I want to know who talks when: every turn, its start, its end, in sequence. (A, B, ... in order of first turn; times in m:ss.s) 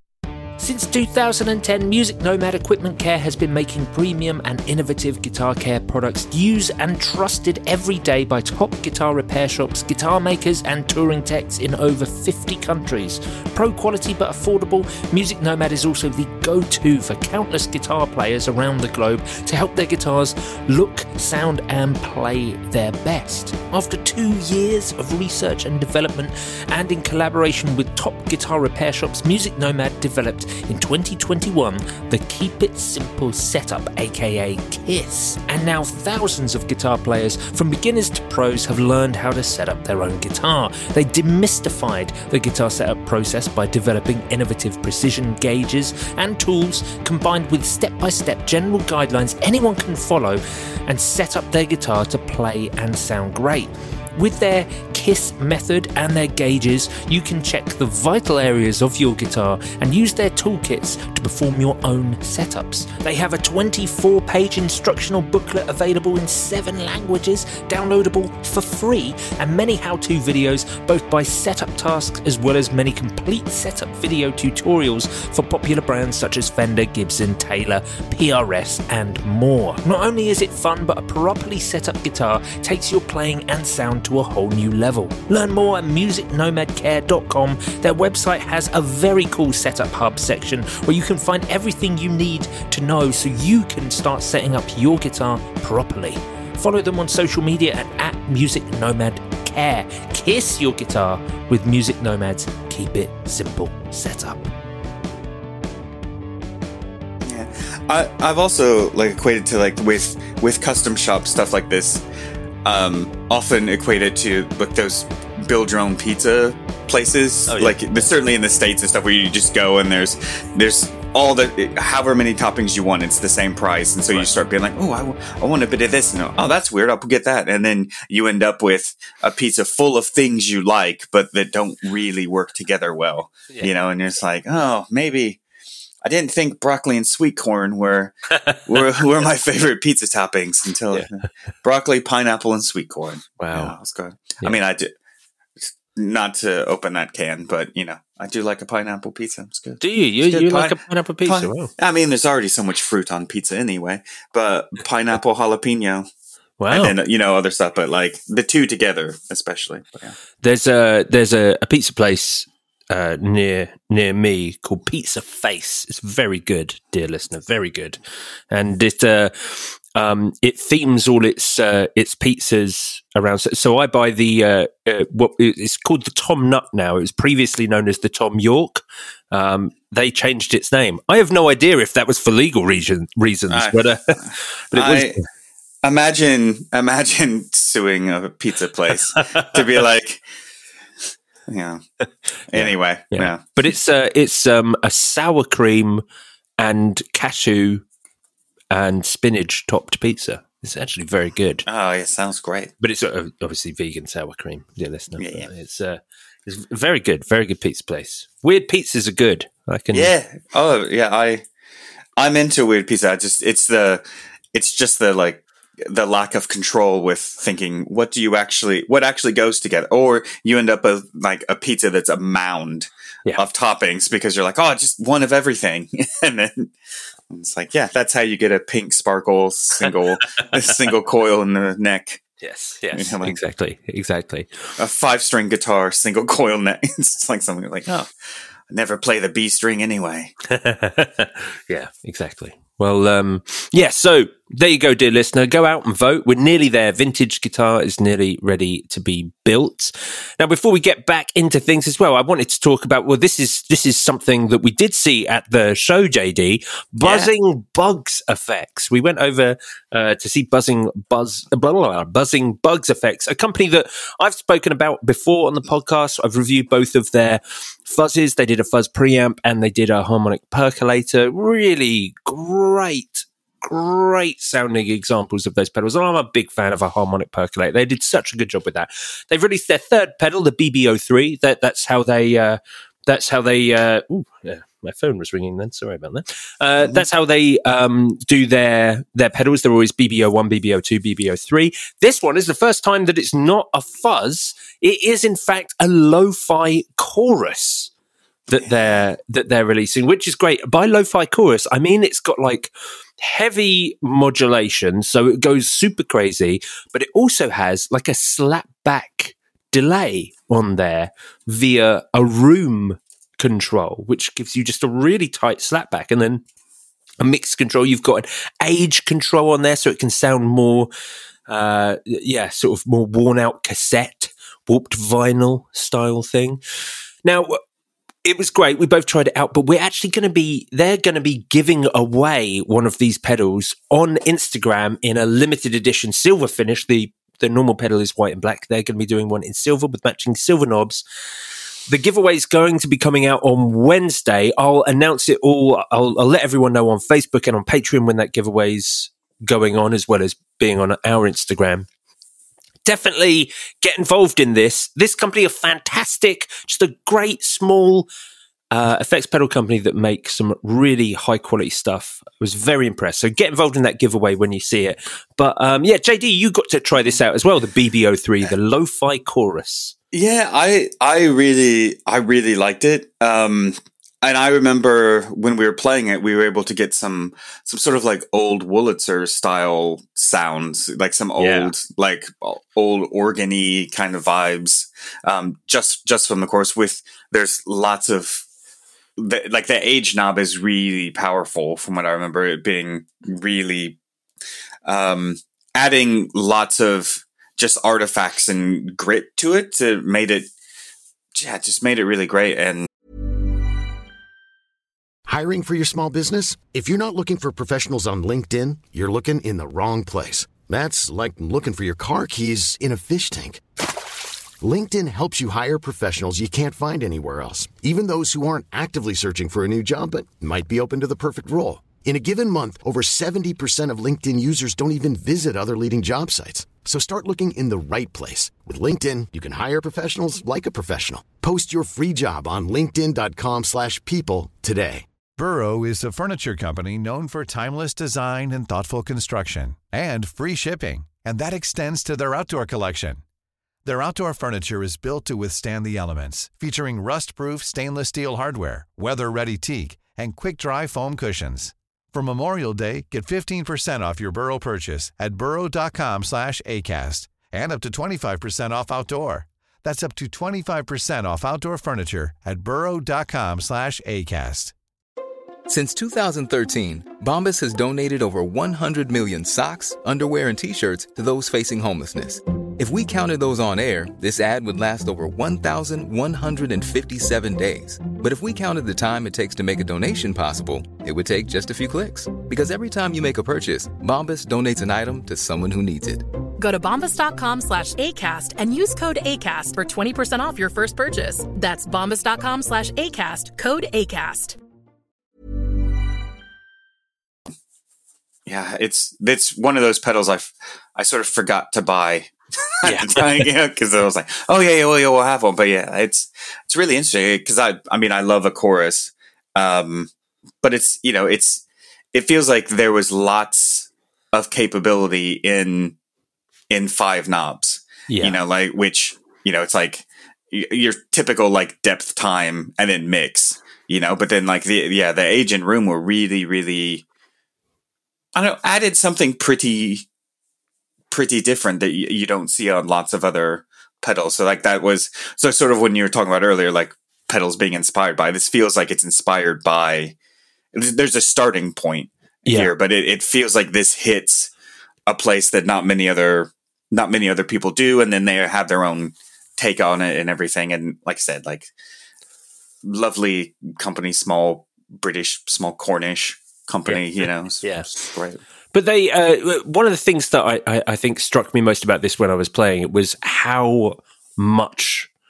0:00.6-1:44.5 A
1:47.2-1:52.0 B
1:52.6-2:15.4 B
1:57.5-1:58.1 A
2:16.0-2:24.9 B
2:23.4-2:23.8 A
2:25.6-2:36.1 B
2:29.8-2:31.7 A
2:36.6-2:36.9 A
2:36.7-2:40.2 B
2:40.4-2:48.0 A
2:48.5-3:04.2 A
3:03.5-3:05.2 B
3:04.7-3:05.2 A
3:05.8-3:10.2 B
3:11.5-3:11.8 B
3:12.5-3:13.4 B
3:12.5-3:16.0 A
3:16.6-3:17.8 A
3:18.7-3:21.6 A
3:21.7-3:22.7 B
3:22.8-3:30.1 A
3:25.2-3:25.5 B
3:29.9-3:31.4 B
3:32.2-3:46.7 B
3:47.3-3:52.2 B
3:52.4-3:54.5 A
3:52.9-3:53.4 B
3:54.8-3:58.1 B
3:58.7-4:00.3 B
4:00.5-4:57.9 A
4:17.0-4:17.3 B
4:58.5-5:16.4 A
4:58.5-4:59.0 B
5:17.2-5:20.9 A
5:21.5-5:26.6 A
5:27.2-5:27.6 A
5:28.2-5:41.0 A
5:41.9-5:51.9 A
5:52.9-5:58.1 A
5:58.7-6:09.9 A
6:10.1-6:28.4 B
6:21.4-6:21.7 A
6:29.2-6:34.0 B
6:34.8-6:40.5 B
6:41.3-6:42.9 B
6:45.3-6:53.6 C
6:54.6-7:15.0 C
7:15.4-7:23.2 D
7:23.8-7:44.7 D
7:45.7-8:06.2 E
8:06.6-8:14.6 F
8:18.5-8:30.1 B
8:22.8-8:23.5 A
8:30.6-8:31.6 B
8:32.1-8:36.0 B
8:36.7-8:47.0 B
8:38.1-8:38.4 A
8:48.3-8:50.0 B
8:51.1-9:00.2 B
9:00.7-9:04.5 B
9:02.5-9:02.7 A
9:05.1-9:11.7 B
9:12.8-9:18.4 B
9:17.6-9:17.9 A
9:18.7-9:25.1 A